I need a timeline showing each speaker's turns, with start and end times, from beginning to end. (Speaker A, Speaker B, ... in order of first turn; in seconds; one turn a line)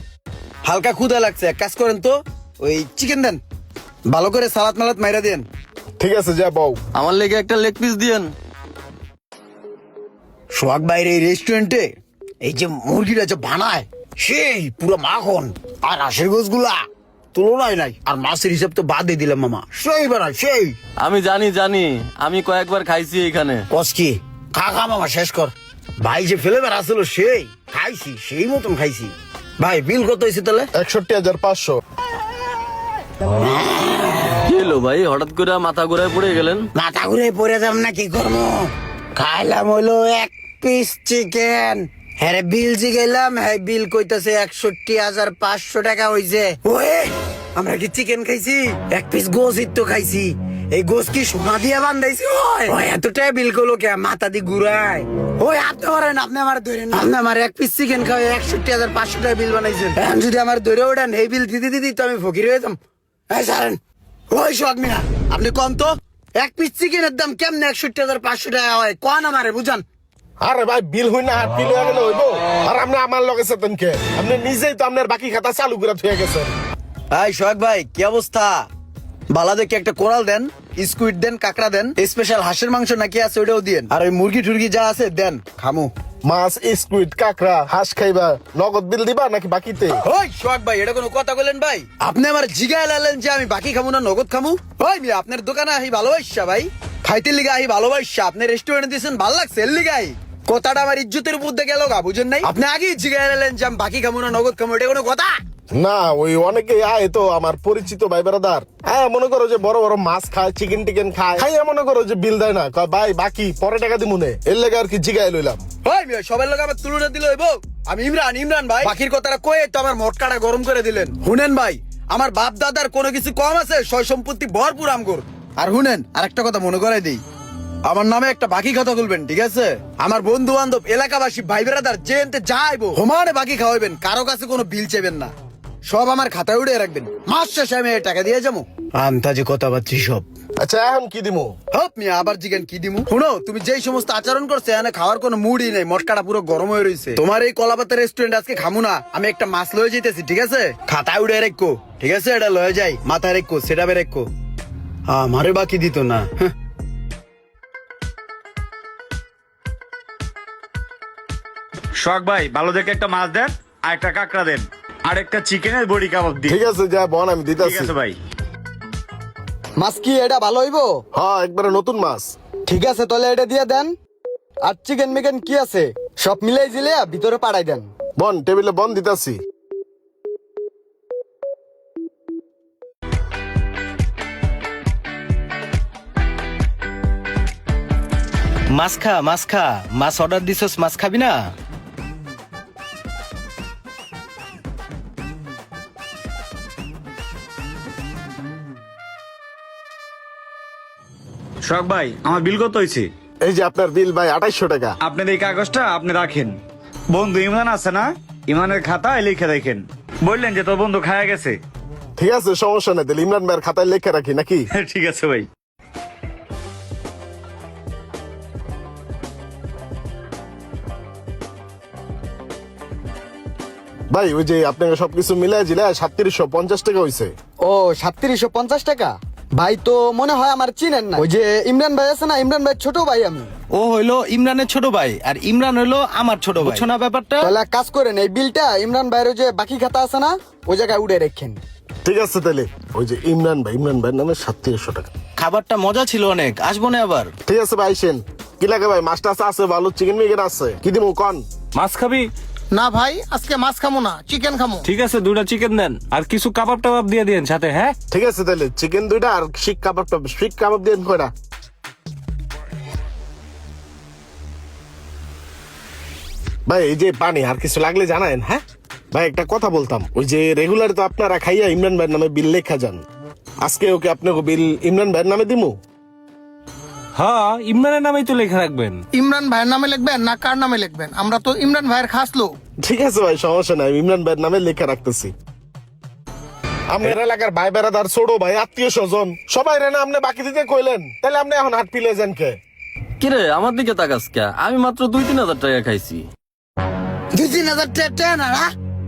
Speaker A: 0.6-3.4
Speaker A: 4.0-5.5
Speaker B: 6.0-6.8
Speaker C: 6.9-8.3
Speaker A: 10.5-11.9
Speaker A: 12.4-20.8
Speaker C: 21.0-23.6
Speaker A: 23.7-30.7
Speaker B: 30.7-31.8
Speaker A: 33.2-34.4
Speaker C: 34.4-36.7
Speaker A: 36.7-62.8
Speaker A: 63.3-63.8
Speaker A: 64.3-69.8
Speaker B: 70.4-76.5
Speaker A: 77.1-78.7
Speaker A: 79.3-85.9
Speaker B: 86.2-90.0
Speaker A: 90.0-105.3
Speaker B: 105.7-115.6
Speaker A: 115.8-127.2
Speaker A: 127.8-135.3
Speaker A: 135.8-140.2
Speaker B: 140.6-141.6
Speaker A: 141.7-154.3
Speaker A: 155.1-156.5
Speaker D: 162.0-166.6
Speaker B: 166.5-167.9
Speaker D: 167.6-168.2
Speaker E: 169.8-171.0
Speaker B: 171.1-172.3
Speaker E: 172.7-173.9
Speaker E: 174.6-177.9
Speaker B: 178.2-179.4
Speaker F: 188.7-191.5
Speaker D: 201.6-203.1
Speaker B: 203.4-205.0
Speaker D: 205.0-206.6
Speaker D: 207.1-211.6
Speaker B: 212.2-214.7
Speaker D: 214.7-215.5
Speaker B: 224.1-227.3
Speaker E: 227.6-233.5
Speaker F: 233.7-237.5
Speaker E: 237.4-241.6
Speaker B: 242.0-245.1
Speaker F: 245.4-247.3
Speaker B: 247.4-251.4
Speaker G: 251.7-252.3
Speaker H: 252.7-254.9
Speaker G: 254.8-257.9
Speaker B: 258.1-261.3
Speaker B: 266.7-273.0
Speaker B: 273.6-275.8
Speaker G: 277.1-279.0
Speaker H: 279.1-282.6
Speaker B: 282.8-285.3
Speaker B: 286.9-292.6
Speaker C: 293.2-296.2
Speaker A: 297.3-298.7